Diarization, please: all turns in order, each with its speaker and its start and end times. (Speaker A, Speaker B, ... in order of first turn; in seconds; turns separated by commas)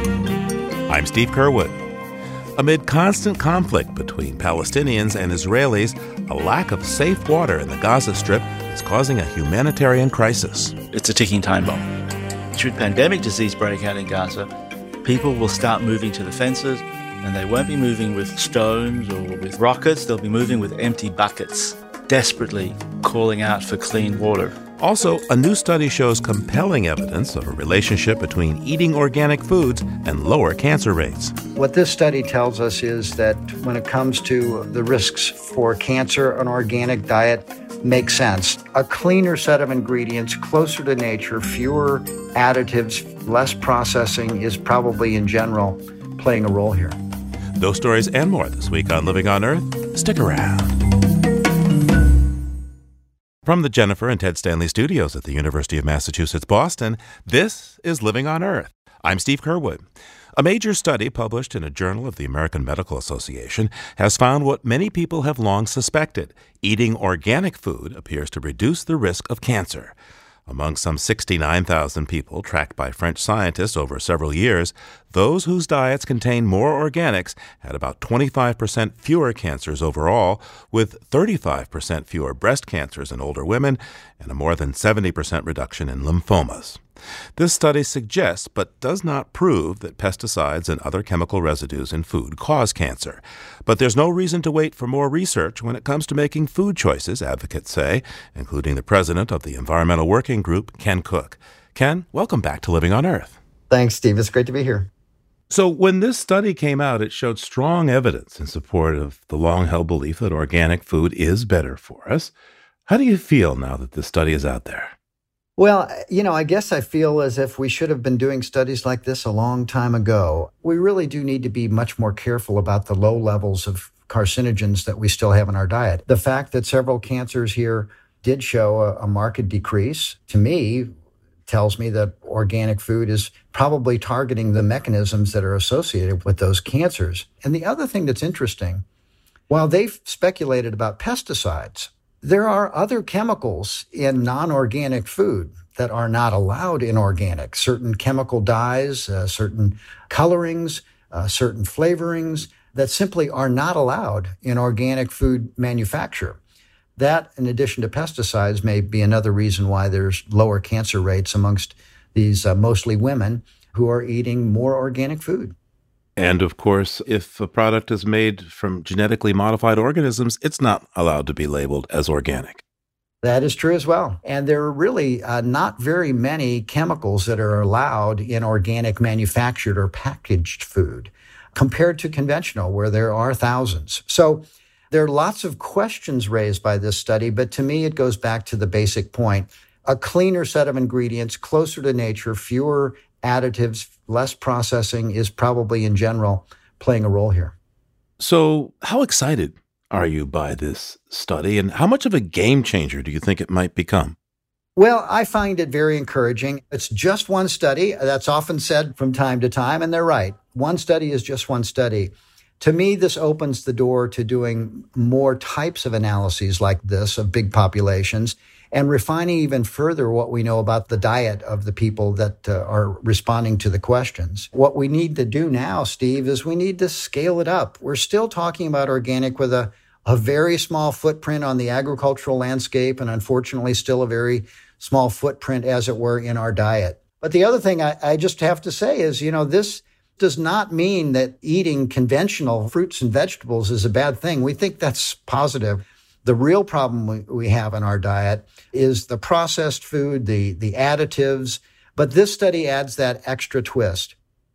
Speaker A: 0.9-1.8, Speaker A: 2.6-10.8, Speaker B: 10.9-11.9, Speaker B: 12.5-14.5, Speaker B: 15.0-24.6, Speaker A: 24.8-31.4, Speaker C: 31.6-47.0, Speaker A: 47.6-50.8, Speaker A: 53.5-59.8, Speaker A: 60.4-70.0, Speaker A: 70.5-86.8, Speaker A: 87.4-103.4, Speaker C: 103.7-104.9, Speaker A: 105.5-112.3, Speaker A: 112.9-114.9, Speaker C: 115.6-130.9, Speaker C: 131.5-138.8, Speaker C: 139.5-156.4, Speaker C: 157.0-165.6, Speaker A: 166.2-172.6, Speaker C: 173.2-197.6, Speaker A: 198.2-204.2, Speaker C: 204.8-254.1